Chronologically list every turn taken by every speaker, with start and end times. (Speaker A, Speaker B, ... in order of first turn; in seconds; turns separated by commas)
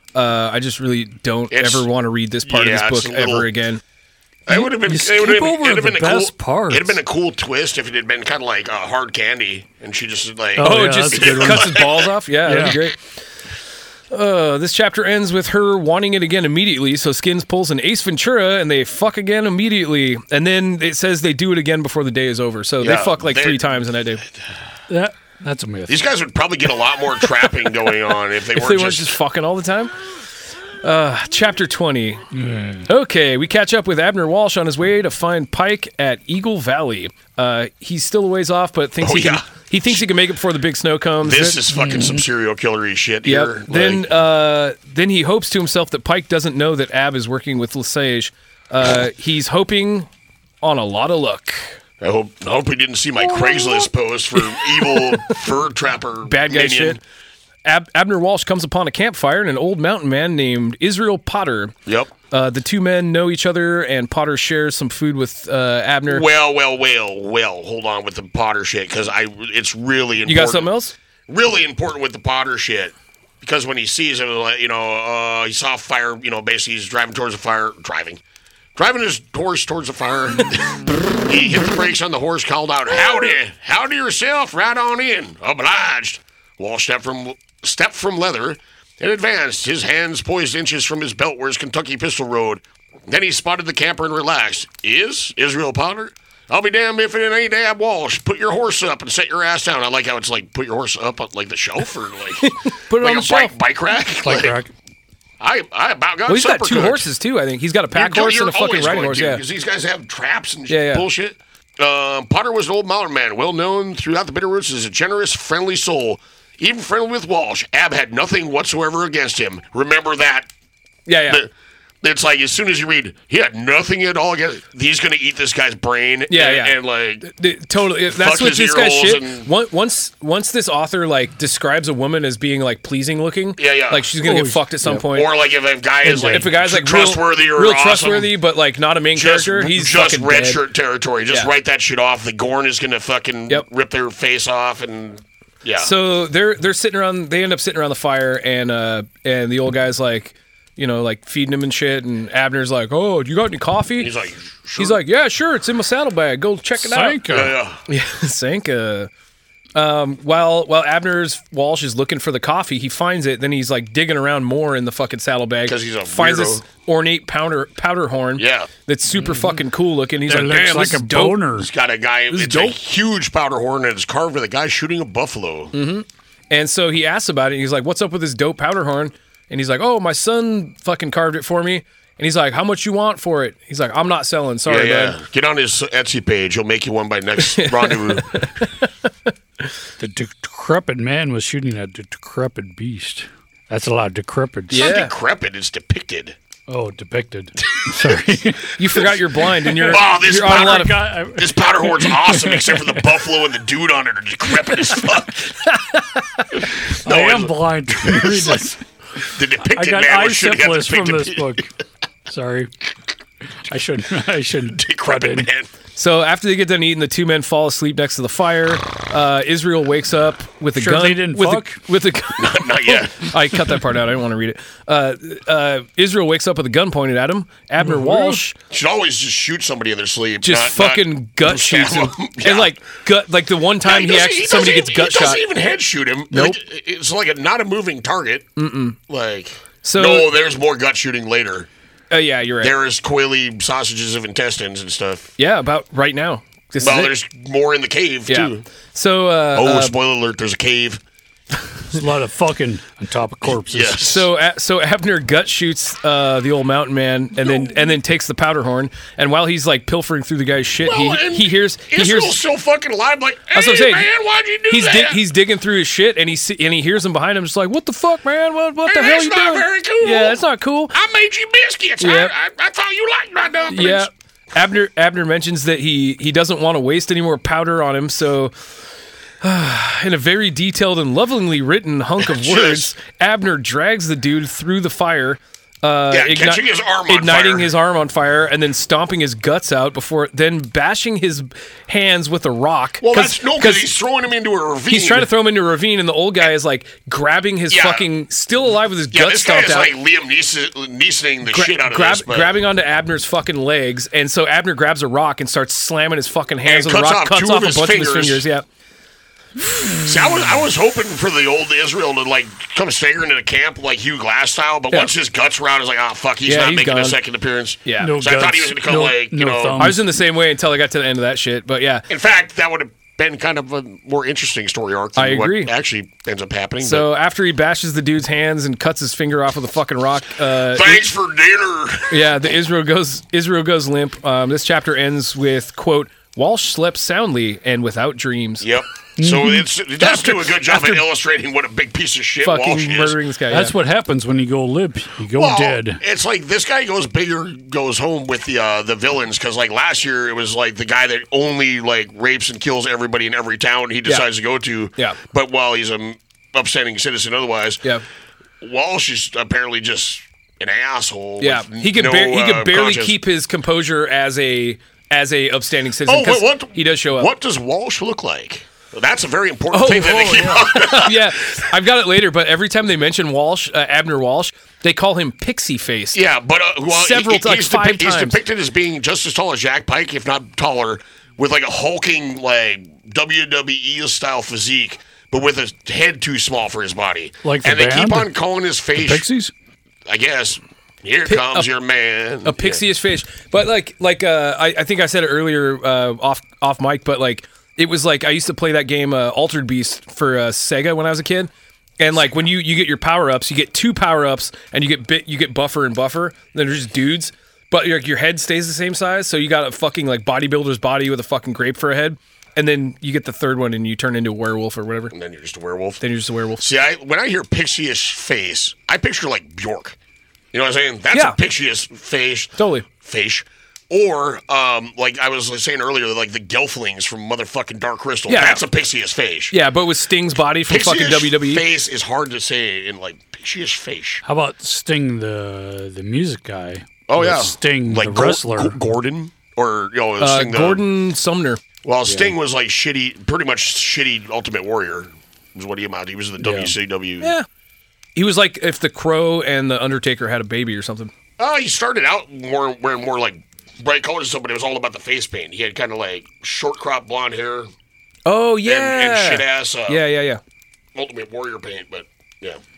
Speaker A: 0.1-3.8, Speaker B: 1.5-1.9, Speaker B: 2.4-3.5, Speaker B: 4.5-12.1, Speaker C: 4.5-6.9, Speaker C: 10.6-11.7, Speaker A: 10.6-13.0, Speaker C: 12.5-12.8, Speaker A: 14.1-24.2, Speaker B: 22.8-23.7, Speaker C: 24.9-26.0, Speaker B: 25.9-29.2, Speaker A: 28.5-29.9, Speaker A: 30.8-32.2, Speaker C: 32.3-32.9, Speaker A: 32.9-41.6, Speaker B: 39.0-40.0, Speaker B: 41.2-44.2, Speaker C: 41.8-42.2, Speaker A: 43.2-50.1, Speaker A: 50.6-51.8, Speaker B: 52.0-57.0, Speaker A: 53.4-53.7, Speaker A: 54.4-55.4, Speaker A: 56.3-57.0, Speaker A: 57.6-61.8, Speaker B: 61.9-62.1, Speaker A: 62.3-66.3, Speaker B: 66.1-70.7, Speaker A: 70.3-71.0, Speaker B: 71.3-78.2, Speaker B: 78.8-104.6, Speaker A: 102.4-103.5, Speaker C: 104.2-104.7, Speaker B: 105.4-107.1, Speaker A: 106.3-109.4, Speaker B: 107.9-120.5, Speaker A: 110.7-111.0, Speaker A: 121.1-121.4, Speaker B: 122.0-127.3, Speaker A: 126.3-135.3, Speaker B: 128.1-129.5, Speaker B: 133.6-134.1, Speaker C: 134.2-135.0, Speaker B: 134.9-138.3, Speaker A: 136.0-140.6, Speaker B: 139.1-145.9, Speaker A: 145.8-154.1, Speaker B: 154.0-155.0, Speaker A: 154.8-157.2, Speaker C: 156.8-157.6, Speaker B: 157.3-157.8, Speaker A: 157.9-159.1, Speaker A: 159.8-171.4, Speaker B: 165.7-166.6, Speaker B: 168.4-168.7, Speaker C: 170.3-171.7, Speaker B: 171.6-175.7, Speaker A: 172.3-172.8, Speaker A: 175.7-185.2, Speaker B: 184.7-188.5, Speaker A: 187.4-188.9, Speaker C: 190.0-194.8, Speaker A: 194.7-195.1, Speaker B: 194.7-196.4, Speaker C: 196.7-198.7, Speaker A: 198.7-201.0, Speaker B: 199.8-205.6, Speaker C: 199.9-202.8, Speaker A: 205.7-206.2, Speaker B: 206.9-211.7, Speaker C: 207.1-208.8, Speaker C: 209.7-211.7, Speaker C: 212.3-212.7, Speaker C: 213.7-215.5, Speaker B: 214.7-215.7, Speaker A: 216.0-228.6, Speaker C: 220.8-221.8, Speaker B: 222.3-223.3, Speaker C: 227.8-228.4, Speaker B: 228.7-232.8, Speaker A: 230.4-235.4, Speaker B: 233.8-238.5, Speaker A: 236.3-236.6, Speaker A: 238.6-239.0, Speaker B: 239.1-241.7, Speaker A: 239.8-240.3, Speaker A: 242.1-242.8, Speaker B: 242.6-245.3, Speaker A: 245.4-247.1, Speaker B: 246.8-248.7, Speaker A: 248.3-250.0, Speaker B: 249.5-251.0, Speaker C: 251.9-254.0, Speaker B: 253.5-254.3, Speaker A: 254.0-262.4, Speaker B: 257.4-257.8, Speaker B: 260.8-265.2, Speaker A: 263.5-264.1, Speaker A: 264.7-270.9, Speaker B: 268.9-270.4, Speaker B: 270.9-274.1, Speaker A: 272.0-272.3, Speaker A: 273.7-278.5, Speaker A: 279.4-293.9, Speaker B: 282.2-282.9, Speaker B: 286.1-287.7, Speaker B: 293.0-295.3, Speaker A: 294.9-299.9, Speaker B: 297.7-298.1, Speaker B: 299.1-302.6, Speaker A: 301.5-308.6, Speaker B: 306.6-308.5, Speaker B: 309.9-320.0, Speaker A: 316.4-317.2, Speaker A: 317.9-318.1, Speaker C: 318.0-320.0, Speaker A: 319.8-322.1, Speaker B: 322.1-327.1, Speaker A: 325.2-325.7, Speaker A: 326.8-331.1, Speaker B: 330.6-332.2, Speaker A: 332.1-338.7, Speaker B: 338.6-343.2, Speaker C: 339.2-339.7, Speaker A: 340.0-341.0, Speaker A: 342.4-343.8, Speaker C: 343.5-346.0, Speaker B: 345.3-357.8, Speaker B: 358.6-363.2, Speaker A: 361.4-367.3, Speaker B: 366.1-371.6, Speaker A: 369.7-376.2, Speaker B: 376.1-389.3, Speaker A: 376.9-378.4, Speaker C: 387.4-388.3, Speaker C: 389.0-389.5, Speaker B: 390.1-392.8, Speaker A: 391.3-391.7, Speaker A: 392.4-415.1, Speaker B: 415.1-416.0, Speaker A: 416.0-416.6, Speaker B: 416.6-420.0, Speaker B: 420.5-429.6, Speaker A: 422.6-422.9, Speaker A: 428.3-428.6, Speaker A: 429.5-431.6, Speaker B: 430.7-434.2, Speaker C: 434.2-438.8, Speaker B: 437.1-440.8, Speaker A: 440.2-441.6, Speaker B: 441.8-447.3, Speaker C: 446.4-446.7, Speaker A: 447.2-447.5, Speaker A: 448.2-451.1, Speaker B: 451.4-457.7, Speaker A: 458.3-460.4, Speaker B: 458.6-460.0, Speaker B: 460.9-462.6